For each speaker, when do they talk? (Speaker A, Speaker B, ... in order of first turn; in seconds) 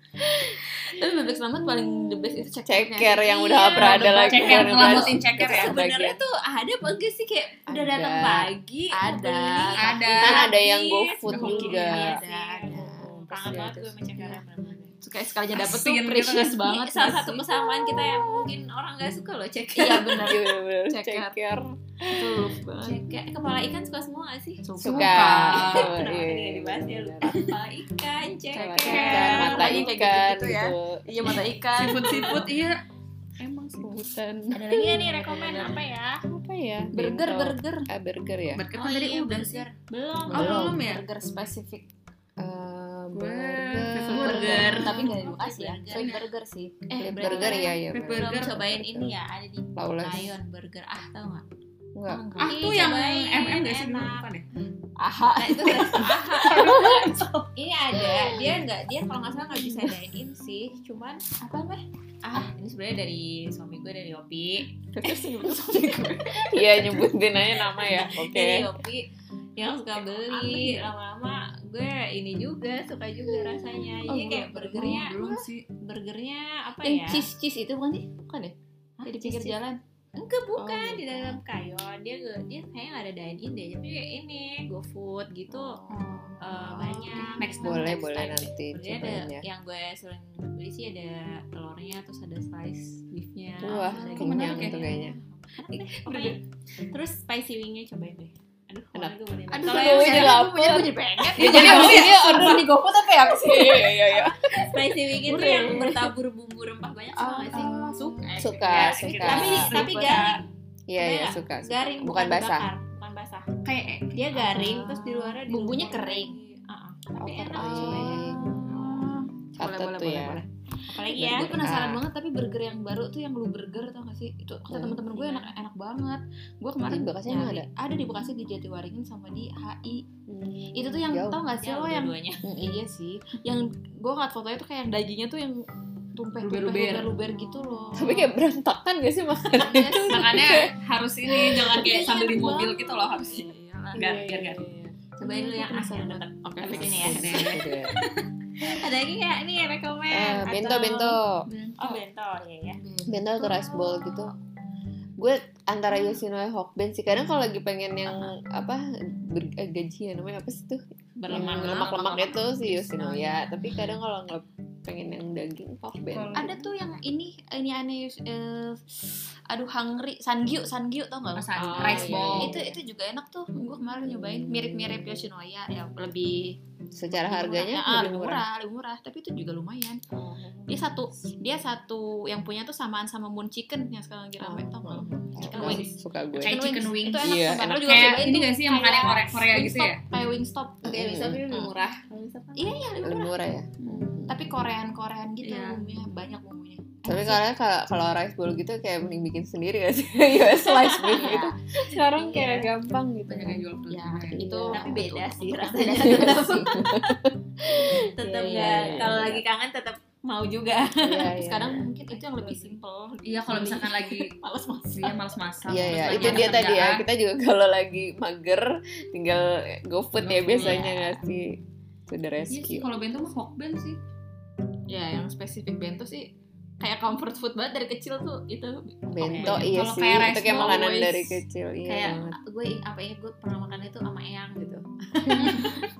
Speaker A: 0.5-5.1, 8.9-10.1, 11.3-13.1, 15.0-17.4, 19.8-21.3, 22.1-23.2, 24.6-25.9, 28.5-32.5, 34.8-35.7, 36.9-37.9, 38.5-39.6, 40.3-41.9, 44.1-47.5, 52.1-52.8, 55.0-56.1, 56.6-56.9, 61.4-61.8, 64.9-66.8, 70.1-70.9, 74.1-75.6, 76.8-79.8, 80.6-81.0, 86.1-87.8, 93.8-94.7, 95.8-96.4, 99.5-104.5, 105.2-106.1, 107.2-110.4, 113.6-116.4, 117.4-120.5, 121.1-130.0, 130.7-135.6, 136.1-138.3, 139.5-144.5, 145.2-147.5, 152.8-154.3, 161.2-163.4, 166.3-180.0, 180.7-193.3, 194.3-197.4, 200.9-201.5, 203.9-206.4, 208.5-208.8, 211.3-215.1, 215.8-216.6, 220.3-220.9, 224.9-231.4
Speaker B: 2.1-6.2, 7.7-8.5, 10.1-13.9, 20.1-22.6, 24.8-27.5, 28.5-31.4, 33.8-35.8, 36.3-38.6, 40.3-40.8, 42.4-45.1, 47.0-49.1, 49.8-50.3, 51.9-52.5, 65.0-65.6, 66.3-68.7, 85.5-89.4, 93.6-95.2, 98.9-104.4, 108.4-109.7, 110.9-112.7, 117.2-120.4, 121.1-122.0, 124.7-125.1, 126.8-127.7, 130.3-131.4, 132.4-132.8, 137.9-140.7, 141.3-141.7, 143.9-145.0, 146.6-147.9, 150.1-151.4, 153.1-154.3, 155.2-166.5, 171.6-172.8, 174.0-175.3, 176.9-178.4, 180.1-180.7, 184.4-186.6, 187.2-188.1, 190.8-191.7, 193.0-194.5, 197.1-203.6, 204.3-205.2, 205.7-209.4, 211.0-211.9, 215.7-222.9, 229.1-232.4, 235.3-235.7
Speaker C: 3.8-5.8, 9.8-10.4, 15.5-16.6, 24.8-25.9, 28.9-29.4, 31.8-32.8, 33.4-33.9, 40.3-41.0, 43.1-44.9, 45.9-46.2, 47.3-48.6, 52.4-54.4, 55.8-57.5, 74.7-75.5, 86.0-86.3, 87.3-88.0, 94.1-94.8, 99.7-100.5, 101.4-102.6, 107.7-107.9, 109.3-110.4, 136.4-137.1, 140.1-144.4, 161.3-162.3, 166.1-166.7, 171.3-172.6, 186.3-190.0, 195.4-195.8, 203.3-204.4, 213.2-214.3, 214.9-217.1, 220.2-220.6, 222.5-224.0, 229.4-230.9, 235.3-235.8
Speaker D: 4.7-14.9, 16.6-20.3, 22.8-24.7, 25.2-29.9, 34.6-36.2, 38.7-40.8, 44.2-46.2, 46.8-51.5, 52.4-54.3, 55.4-57.0, 57.5-61.3, 62.2-64.7, 67.8-77.3, 79.0-79.5, 80.2-85.8, 86.4-100.4, 104.1-110.4, 111.0-113.5, 114.1-118.4, 120.8-121.5, 125.2-125.5, 131.5-132.4, 145.2-151.2, 151.8-152.8, 161.2-162.0, 185.5-185.9, 191.8-192.8, 200.8-201.5, 202.0-202.7, 204.7-207.1, 207.8-211.3, 214.7-215.1, 220.5-221.1, 229.0-229.6, 231.9-235.8